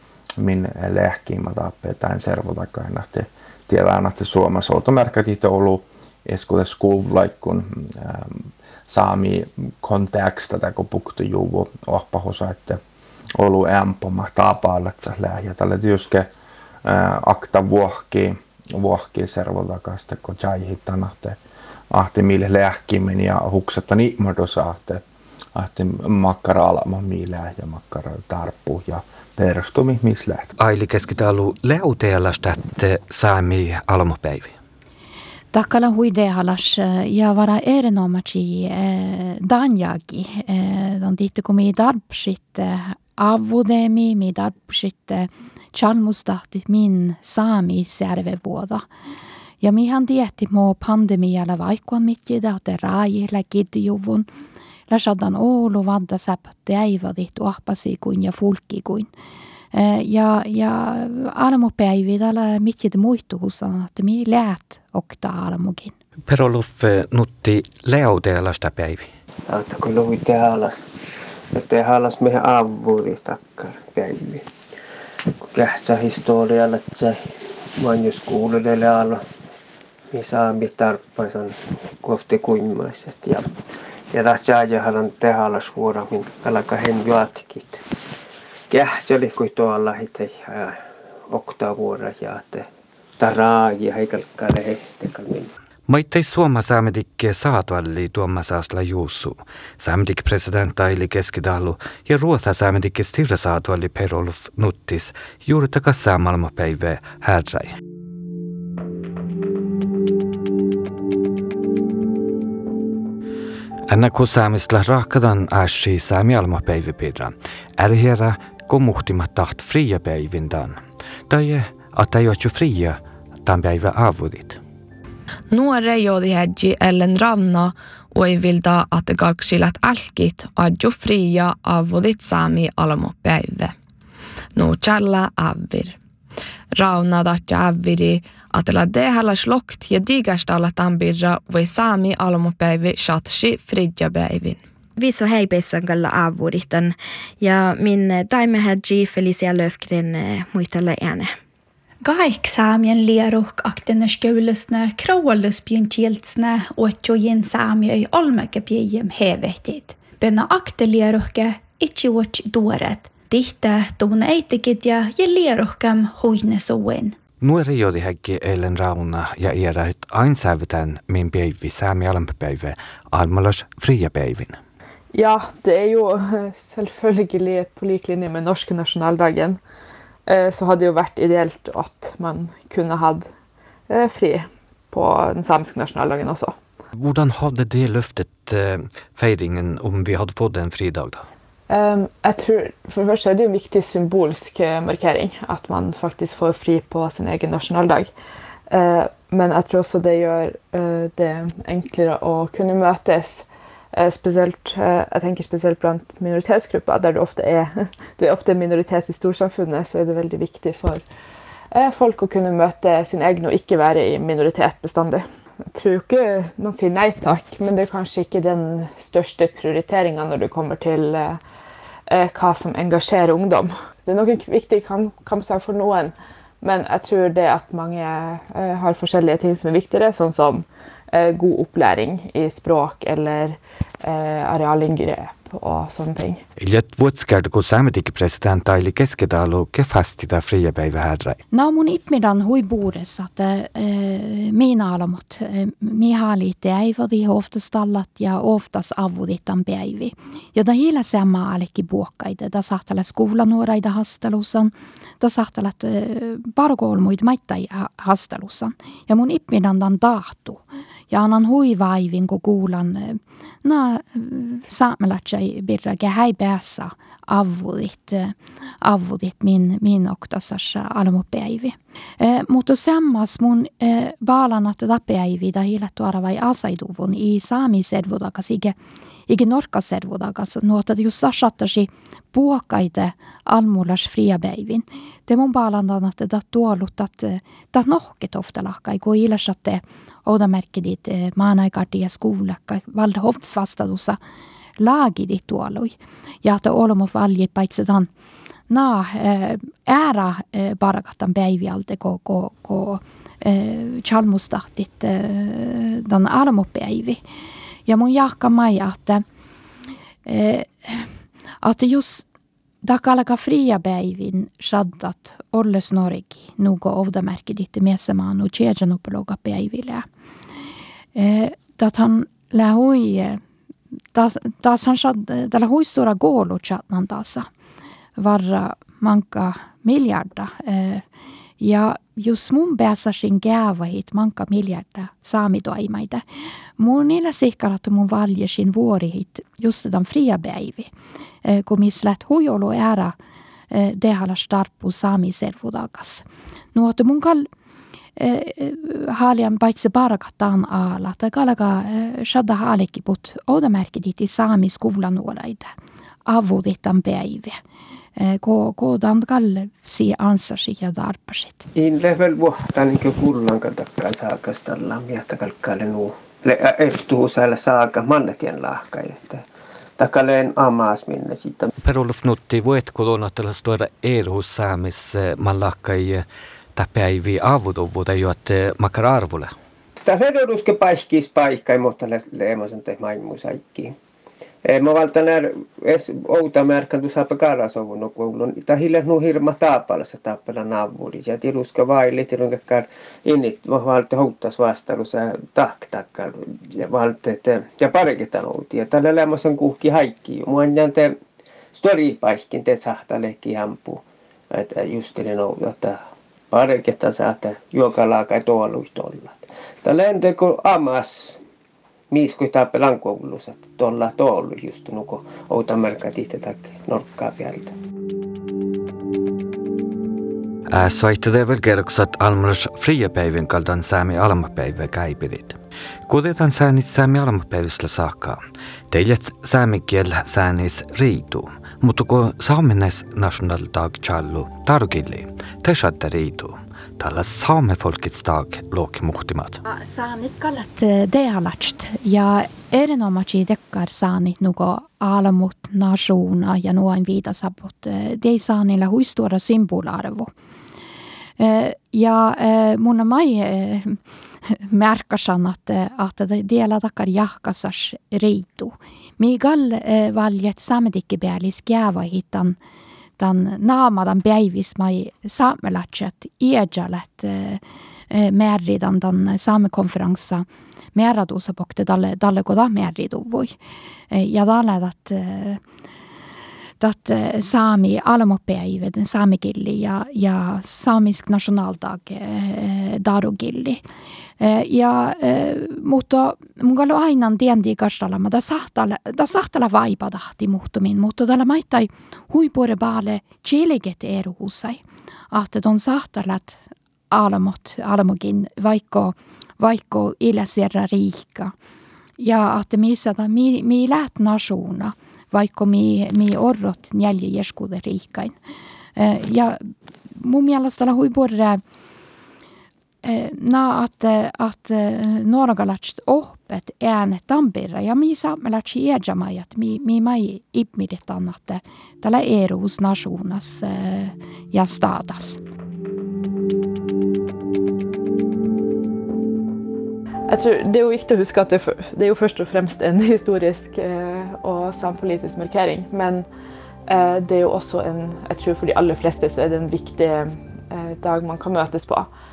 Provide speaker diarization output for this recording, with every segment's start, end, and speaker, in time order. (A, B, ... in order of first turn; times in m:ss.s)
0:00.4-0:12.8 A
0:13.4-0:16.3 A
0:16.8-0:21.4 A
0:21.9-0:25.0 A
0:25.6-0:30.5 A
0:30.6-0:34.6 B
0:35.5-0:48.8 C
0:49.6-0:54.3 C
0:54.9-0:59.1 C
0:59.7-1:05.9 C
1:06.3-1:09.1 B
1:09.5-1:10.8 D
1:11.5-1:14.4 D
1:15.4-1:17.2 D
1:17.8-1:19.2 D
1:20.1-1:23.5 D
1:24.1-1:27.8 D
1:28.7-1:30.8 D
1:31.3-1:32.6 D
1:33.2-1:35.5 D
1:35.9-1:47.7 B
1:53.9-2:00.8 B
2:01.3-2:04.6 B
2:05.5-2:13.8 E
2:14.6-2:16.0 E
2:16.7-2:24.6 E
2:25.0-2:31.4 F
2:32.0-2:47.2 G
2:47.4-2:54.6 B
2:55.1-2:59.6 H
3:00.3-3:03.3 H
3:03.9-3:06.6 H
3:07.0-3:11.2 B
3:11.7-3:18.1 H
3:18.7-3:31.0 H
3:31.7-3:41.4 H
3:42.1-3:56.4 H
3:56.6-4:01.4 B
4:01.5-4:38.8 C
4:39.3-4:54.2 C
4:54.8-4:58.1 C
4:58.7-5:07.2 C
5:07.9-5:09.2 C
5:10.3-5:11.1 C
5:11.6-5:12.2 C
5:12.8-5:20.0 C
5:21.2-5:23.4 C
5:24.1-5:27.5 C
5:28.2-5:31.0 C
5:31.6-5:36.2 C
5:36.8-5:40.9 C
5:41.4-5:43.2 C
5:43.7-5:47.5 C
5:48.2-5:55.7 C
5:56.3-5:57.6 C
5:58.2-6:01.7 C
6:01.8-6:09.4 D
6:10.0-6:11.7 D
6:11.8-6:19.5 B
6:20.0-6:23.9 D
6:24.6-6:41.1 D
6:41.8-6:46.0 D
6:46.5-6:51.4 D
6:52.1-6:57.7 D
7:00.7-7:19.6 B
7:19.6-7:30.3 C
7:31.4-7:34.0 C
7:34.5-7:42.6 C
7:43.2-7:53.6 C
7:54.1-7:55.6 C
7:56.8-8:03.8 C
8:04.4-8:16.6 C
8:17.1-8:21.5 C
8:22.2-8:28.4 C
8:29.0-8:29.6 C
8:30.1-8:31.6 C
8:33.0-8:45.4 C
8:50.3-8:56.3 H
8:56.9-9:02.1 H